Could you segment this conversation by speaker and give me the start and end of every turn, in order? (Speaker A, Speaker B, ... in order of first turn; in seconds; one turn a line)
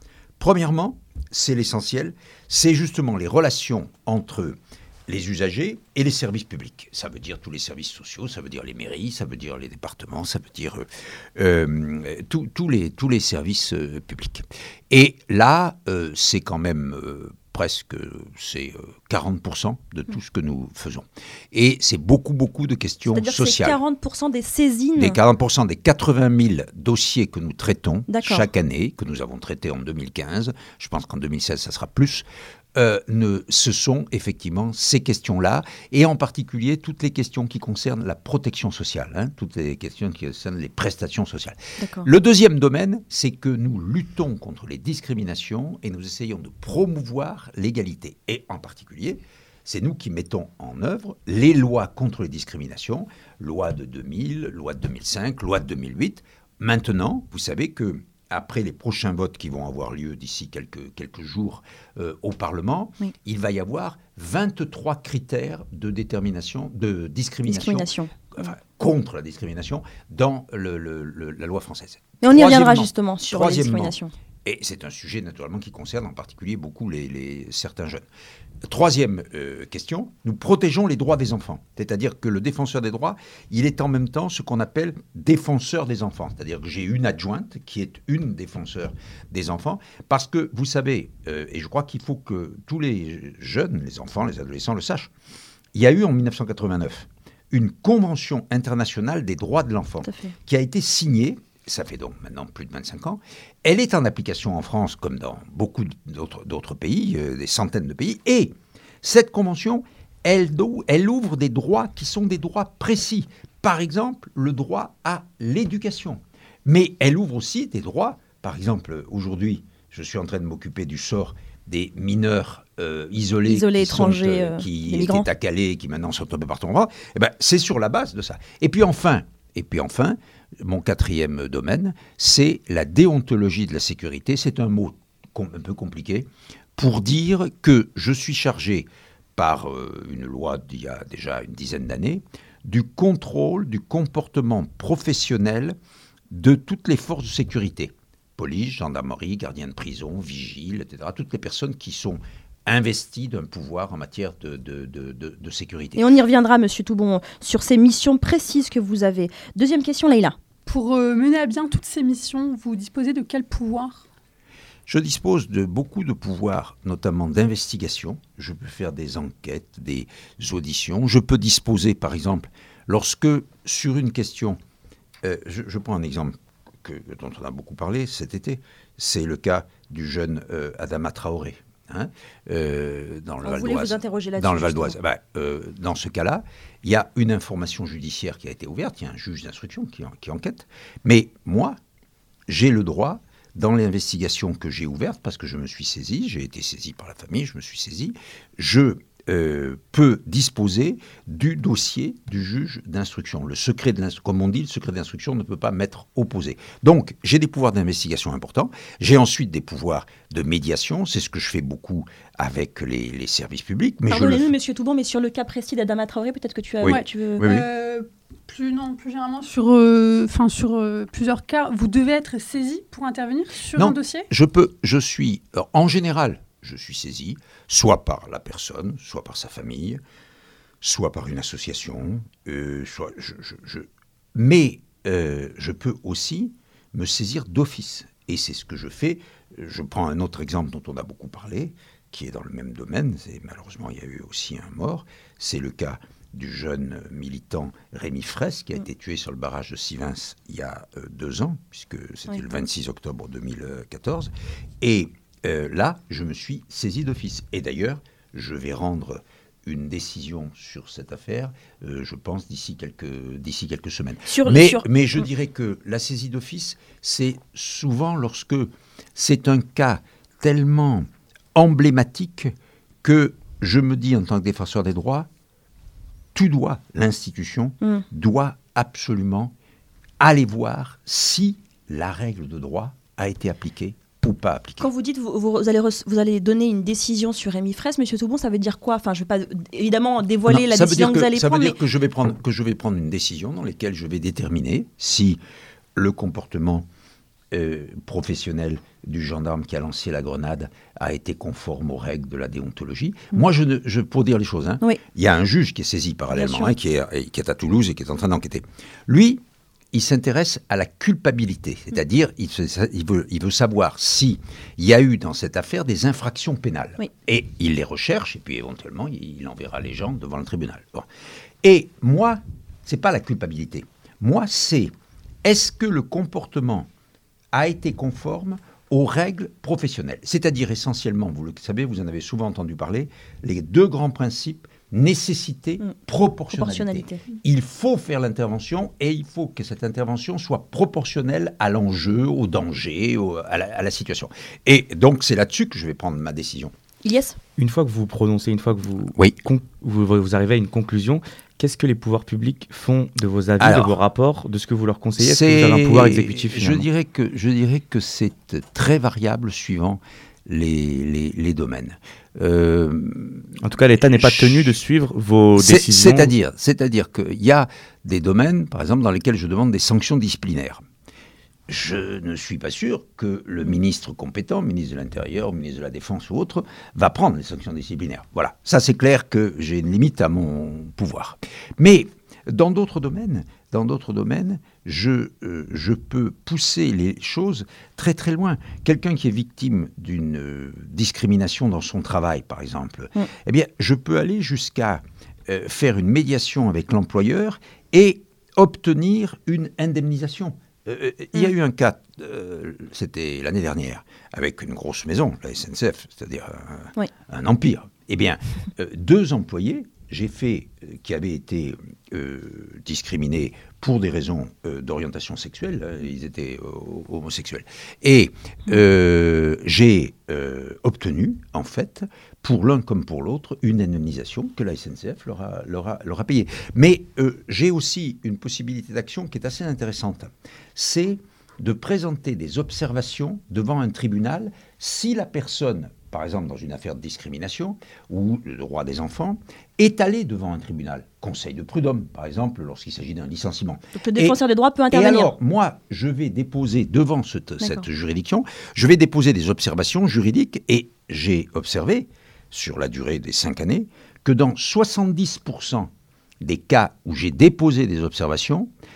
Speaker A: 0.4-23.8
Speaker B: 23.1-25.2
Speaker A: 25.0-78.0
Speaker B: 28.1-28.4
Speaker B: 41.8-42.1
Speaker B: 67.5-68.1
Speaker B: 72.2-74.1
Speaker A: 78.6-95.1
Speaker A: 95.7-145.8
Speaker B: 100.0-100.3
Speaker B: 123.4-125.3
Speaker A: 146.3-156.0
Speaker B: 156.0-160.4
Speaker C: 160.7-164.1
Speaker A: 164.9-174.6
Speaker A: 175.2-191.8
Speaker B: 183.4-185.0
Speaker A: 192.5-214.5
Speaker B: 214.1-217.4
Speaker A: 216.8-217.7
Speaker C: 216.8-224.2
Speaker A: 223.7-230.0
Speaker A: 230.8-272.5
Speaker B: 264.2-264.9
Speaker A: 273.0-275.3
Speaker A: 276.4-279.5
Speaker A: 280.2-284.9
Speaker B: 284.8-291.8
Speaker A: 290.5-295.4
Speaker A: 295.9-296.9
Speaker A: 297.5-321.1
Speaker B: 306.3-306.7
Speaker A: 321.6-324.9
Speaker A: 325.4-326.9
Speaker A: 327.5-346.7
Speaker B: 336.5-337.2
Speaker B: 347.0-347.4
Speaker D: 347.6-356.9
Speaker A: 353.6-354.0
Speaker A: 355.2-364.8
Speaker D: 363.6-366.3
Speaker A: 365.6-370.8
Speaker A: 371.7-444.4
Speaker B: 443.9-445.3
Speaker A: 444.9-458.7